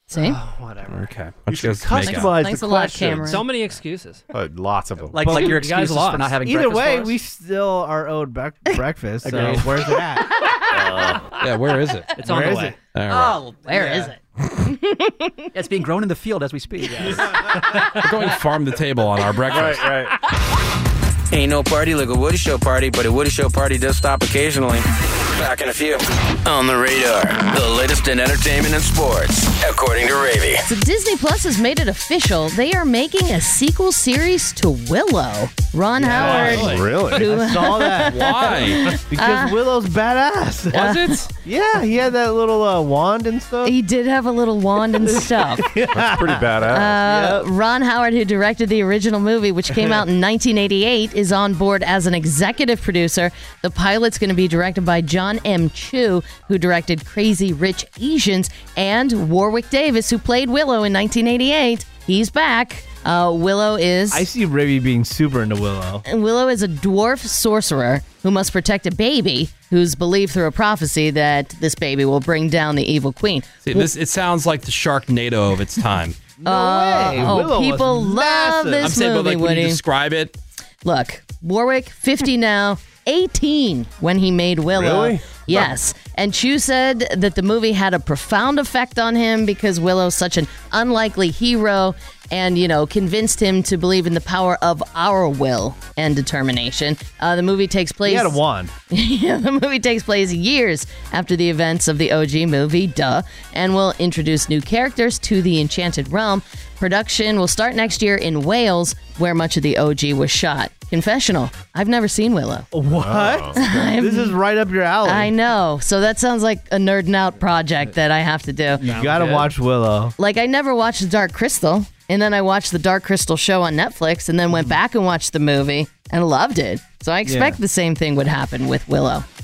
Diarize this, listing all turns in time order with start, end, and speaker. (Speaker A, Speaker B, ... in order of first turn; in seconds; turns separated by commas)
Speaker A: 0.1-0.4, Speaker B: 0.2-0.9, Speaker C: 0.9-2.4, Speaker D: 1.5-3.4, Speaker E: 2.0-3.0, Speaker A: 2.1-3.5, Speaker B: 3.2-4.2, Speaker D: 4.3-5.5, Speaker F: 5.1-7.2, Speaker E: 5.2-5.6, Speaker B: 5.5-6.4, Speaker E: 6.4-10.4, Speaker F: 9.2-9.9, Speaker A: 10.3-10.7, Speaker D: 10.8-11.2, Speaker C: 11.4-12.1, Speaker B: 12.2-12.8, Speaker F: 12.2-12.5, Speaker E: 12.2-12.8, Speaker C: 12.9-13.4, Speaker F: 13.1-13.8, Speaker A: 13.7-15.5, Speaker E: 13.7-14.1, Speaker F: 15.5-17.4, Speaker B: 16.9-17.8, Speaker C: 18.0-19.9, Speaker D: 19.5-20.1, Speaker G: 21.3-30.6, Speaker A: 30.6-39.5, Speaker E: 36.0-38.5, Speaker D: 36.2-37.3, Speaker B: 36.4-36.8, Speaker C: 38.0-38.9, Speaker E: 39.1-43.7, Speaker C: 40.7-41.2, Speaker A: 40.7-41.2, Speaker A: 43.6-45.6, Speaker E: 45.0-46.5, Speaker D: 45.9-47.0, Speaker A: 46.7-64.2, Speaker E: 47.0-47.4, Speaker E: 64.1-66.0, Speaker A: 66.0-73.9, Speaker C: 73.6-76.2, Speaker E: 76.4-79.0, Speaker A: 76.5-79.8, Speaker C: 78.8-80.3, Speaker A: 80.8-98.4, Speaker D: 84.7-85.7, Speaker E: 98.0-98.7, Speaker A: 98.9-112.7, Speaker E: 112.7-115.3, Speaker D: 112.9-113.7, Speaker A: 113.6-114.4, Speaker A: 115.0-118.8, Speaker B: 118.8-119.5, Speaker E: 118.8-120.2, Speaker A: 120.2-129.2, Speaker E: 127.3-127.6